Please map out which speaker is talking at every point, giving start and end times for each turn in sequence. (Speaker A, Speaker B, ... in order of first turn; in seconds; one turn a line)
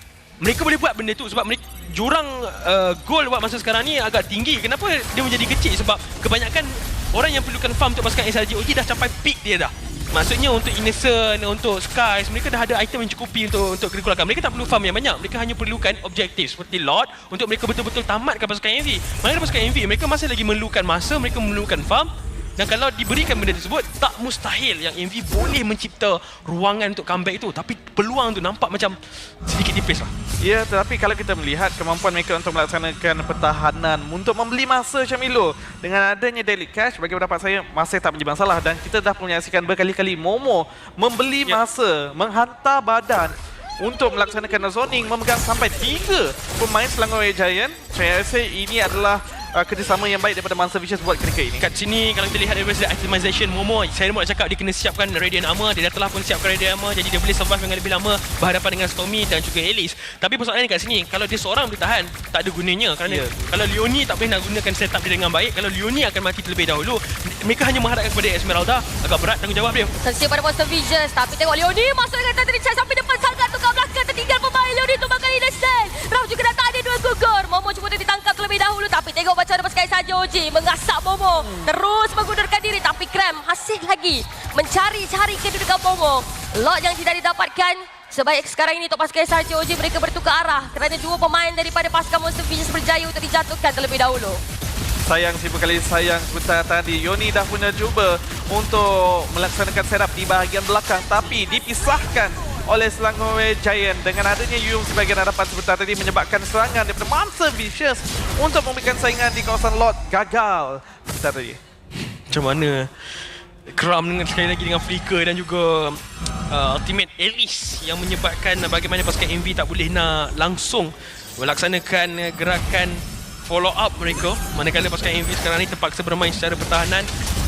Speaker A: 0.4-30.1
Speaker B: 30.4-51.6
Speaker A: 51.6-69.9
Speaker B: 63.0-63.4
Speaker C: 70.0-94.4
Speaker B: 95.0-111.6
Speaker A: 112.3-127.1